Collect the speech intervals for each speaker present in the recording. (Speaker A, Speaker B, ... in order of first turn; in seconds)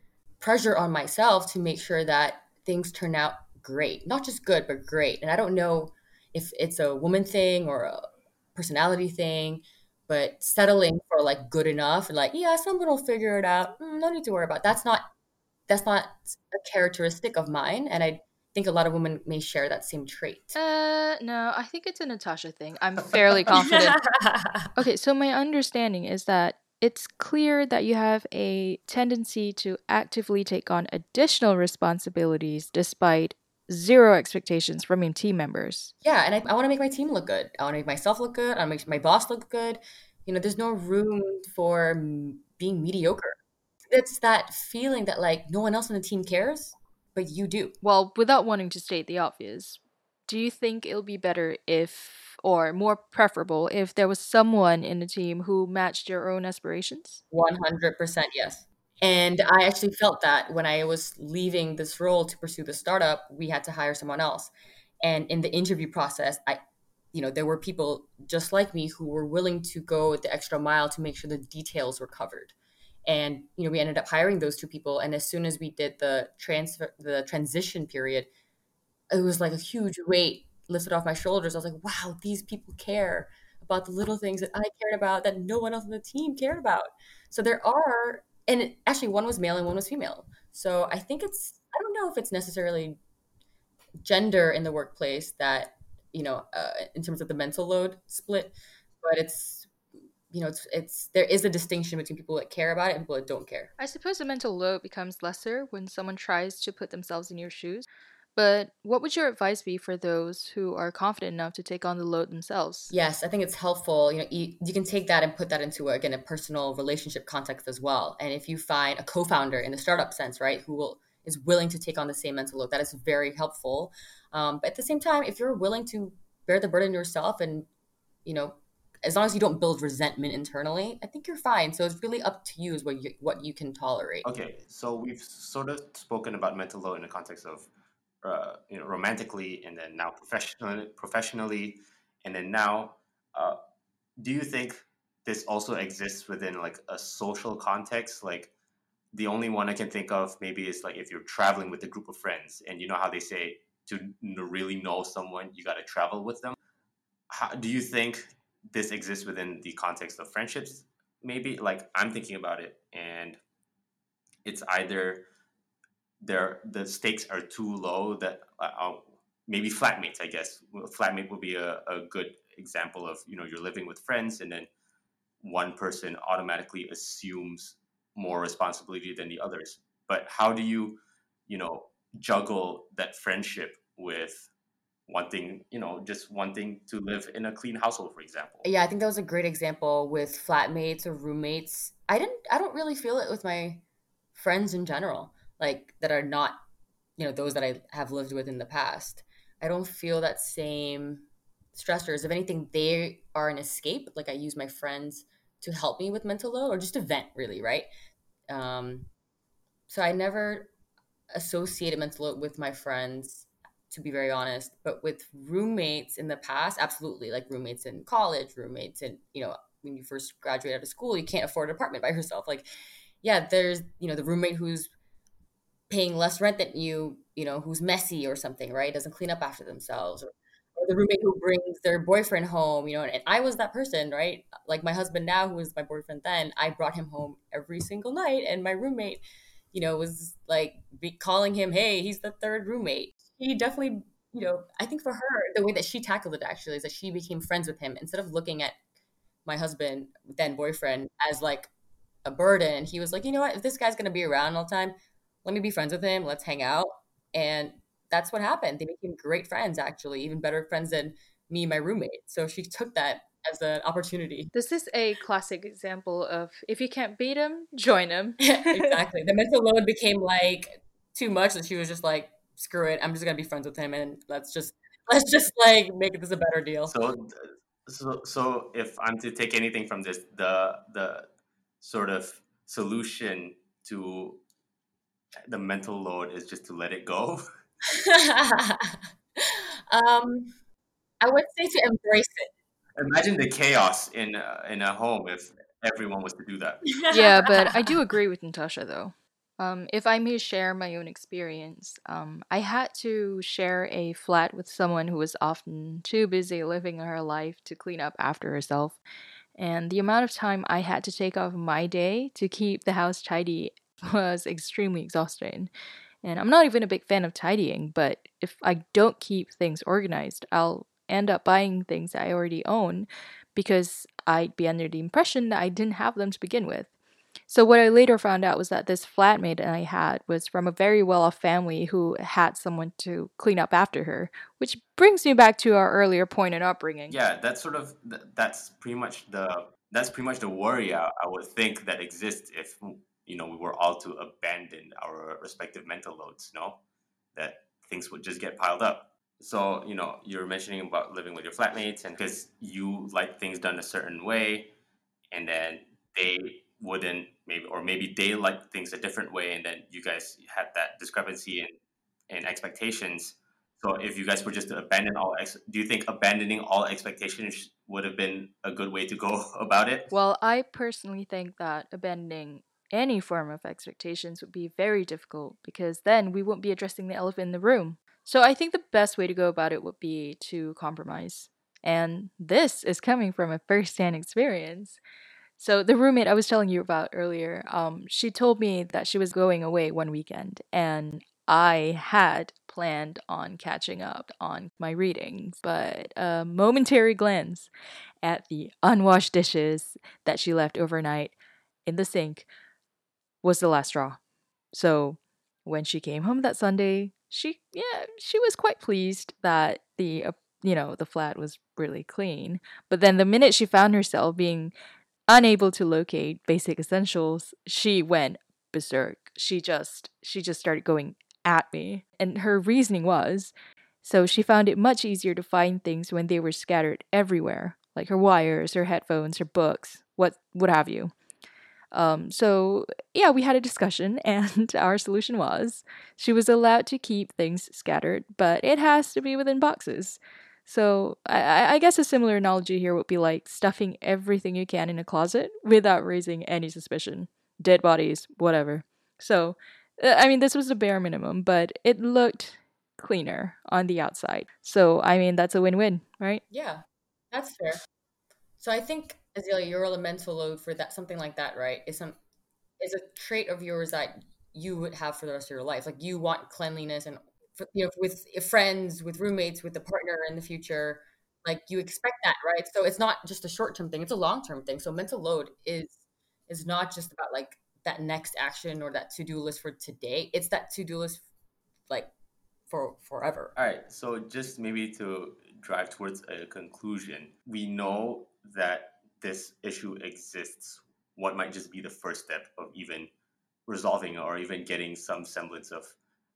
Speaker A: 0.4-15.1, 15.7-20.6, 23.6-24.6, 36.0-43.4, 43.9-47.7, 57.3-66.6, 67.1-72.5, 73.0-78.3, 79.1-93.0, 94.0-99.7, 100.3-103.7, 112.9-127.7, 128.2-134.2, 188.6-193.8, 194.3-196.6, 197.2-207.9, 208.5-209.1, 209.9-210.7, 211.3-222.7, 223.2-224.9, 225.9-239.2, 239.7-248.8, 249.4-251.7, 252.2-254.9, 255.4-264.5, 268.4-276.9, 287.8-290.5, 291.2-292.5, 456.5-457.8, 458.6-462.2, 462.8-481.2, 482.7-483.5
Speaker B: 20.5-24.0, 24.7-35.9, 47.8-57.2, 103.8-112.9, 264.5-269.0, 297.1-309.0, 309.6-315.7, 316.2-326.9, 327.5-337.2, 370.1-385.0, 385.6-397.7, 398.2-401.3, 401.9-402.5, 403.4-404.2, 404.7-414.7, 415.3-431.1, 431.9-456.4
Speaker C: 134.2-137.7, 138.2-143.6, 144.2-148.5, 149.1-156.6, 157.3-163.4, 164.4-165.2, 166.2-174.7, 175.4-184.5, 185.1-188.7, 276.9-281.3, 281.8-284.4, 285.5-287.4, 292.9-297.0, 337.1-346.8, 347.3-354.7, 355.3-361.7, 362.3-370.1, 483.6-493.1, 493.7-495.9